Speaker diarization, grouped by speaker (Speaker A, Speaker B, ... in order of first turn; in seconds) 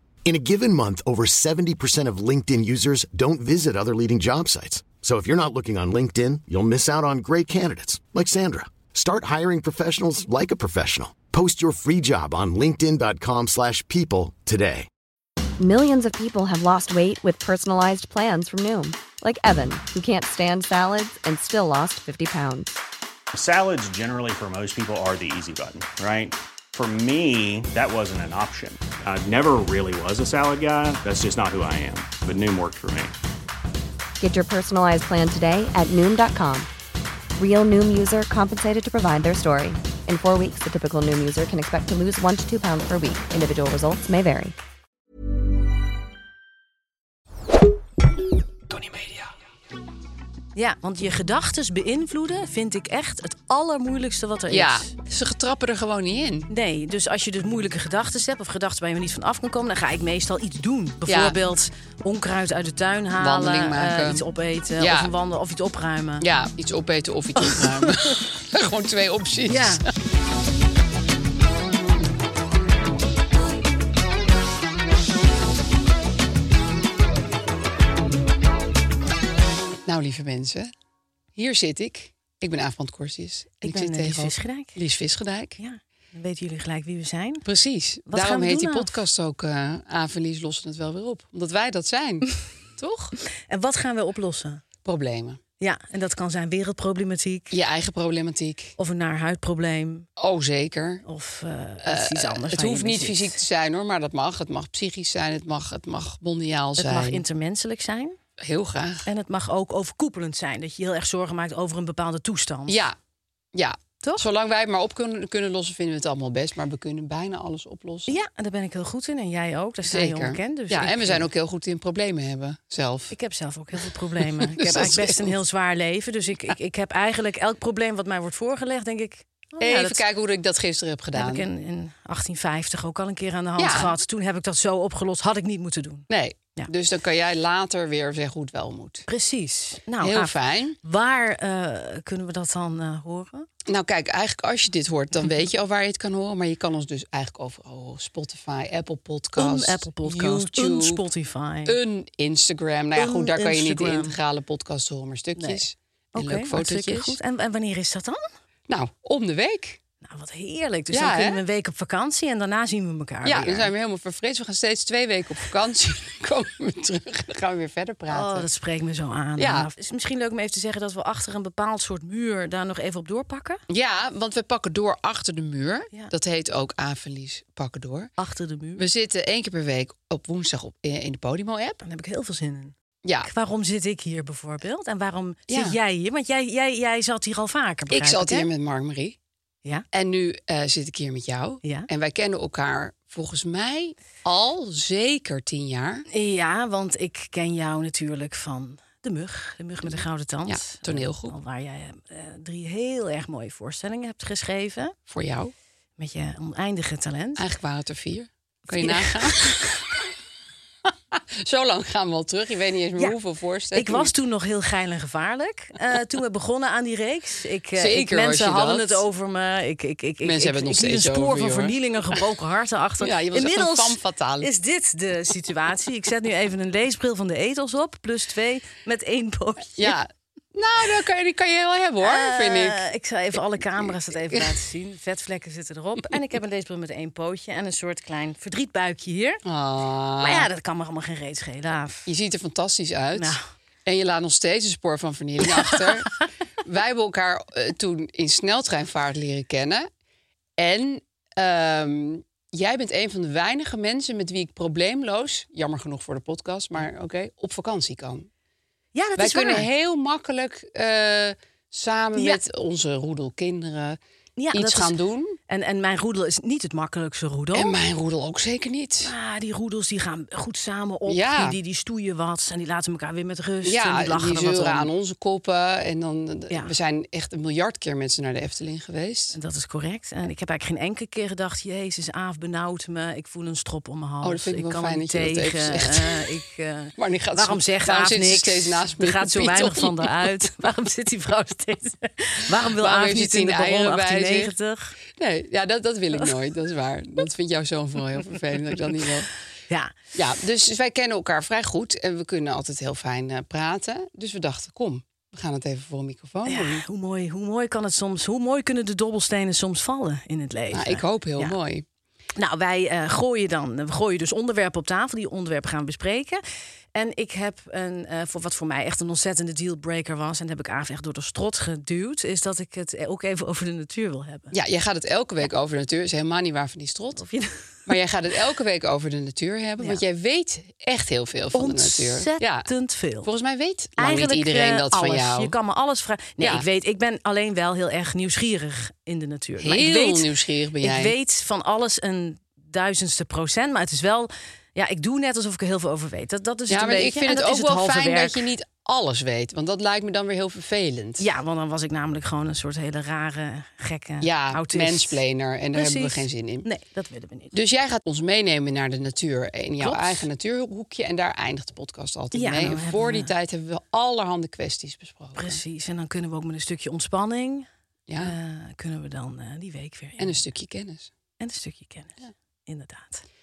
Speaker A: 0.2-14.9
Speaker B: 15.6-22.7, 34.2-36.7, 37.4-44.5
Speaker C: 23.3-33.1
Speaker D: 50.5-54.9, 56.5-66.2, 67.4-68.2, 69.5-69.8, 83.6-84.8, 85.6-87.5, 88.1-88.9, 93.5-94.6, 95.6-97.5, 98.8-100.1, 101.0-103.3, 106.8-108.2, 109.1-112.8, 118.1-121.3, 123.1-130.0, 131.2-136.7, 139.1-143.5, 149.4-151.8, 153.0-154.2, 156.2-158.2, 160.0-163.7, 168.1-173.6, 178.2-178.9, 181.8-188.5, 196.1-205.0, 206.0-207.4, 208.7-209.8, 213.7-230.0, 232.0-239.4, 240.2-242.1, 243.2-243.5, 245.5-246.2, 258.9-259.7, 262.1-262.4, 264.4-264.9, 265.5-267.8, 269.1-274.9, 279.3-295.0, 299.7-299.9, 306.5-311.6, 312.4-316.4, 316.9-324.5, 327.2-327.9, 331.5-333.3, 334.0-340.3, 340.8-348.5, 351.2-355.2, 355.7-357.6, 359.8-360.3, 362.3-363.3, 365.4-367.7, 368.2-370.4, 371.4-373.2
Speaker E: 54.5-56.5, 61.1-61.4, 63.2-64.2, 64.8-65.1, 66.2-69.9, 79.9-80.7, 81.4-85.6, 87.5-93.2, 94.8-95.4, 97.5-98.8, 100.2-101.0, 101.8-107.2, 108.4-109.1, 112.7-113.0, 113.5-118.1, 119.9-123.2, 124.4-125.4, 129.6-131.5, 133.6-133.9, 136.1-139.1, 140.0-140.8, 143.7-151.0, 151.7-157.2, 158.7-159.8, 160.9-161.4, 163.2-168.5, 169.4-169.7, 173.7-178.1, 178.8-181.8, 183.0-183.3, 185.5-185.8, 187.9-189.2, 189.9-196.1, 200.5-201.3, 205.1-205.5, 207.4-209.7, 211.4-214.1, 217.8-219.0, 220.2-222.2, 223.0-224.5, 229.8-232.8, 233.6-234.6, 239.4-240.5, 242.1-246.1, 246.7-249.9, 250.6-258.3, 259.2-264.0, 264.5-265.4, 267.6-269.1, 271.1-271.6, 273.6-279.4, 284.2-286.3, 287.0-290.3, 292.8-294.5, 295.1-299.3, 300.1-306.8, 310.7-311.8, 324.5-327.3, 327.9-332.7, 333.2-335.5, 336.4-336.6, 339.6-341.1, 346.7-351.2, 354.2-356.7, 357.5-365.6, 368.1-368.4, 370.2-371.1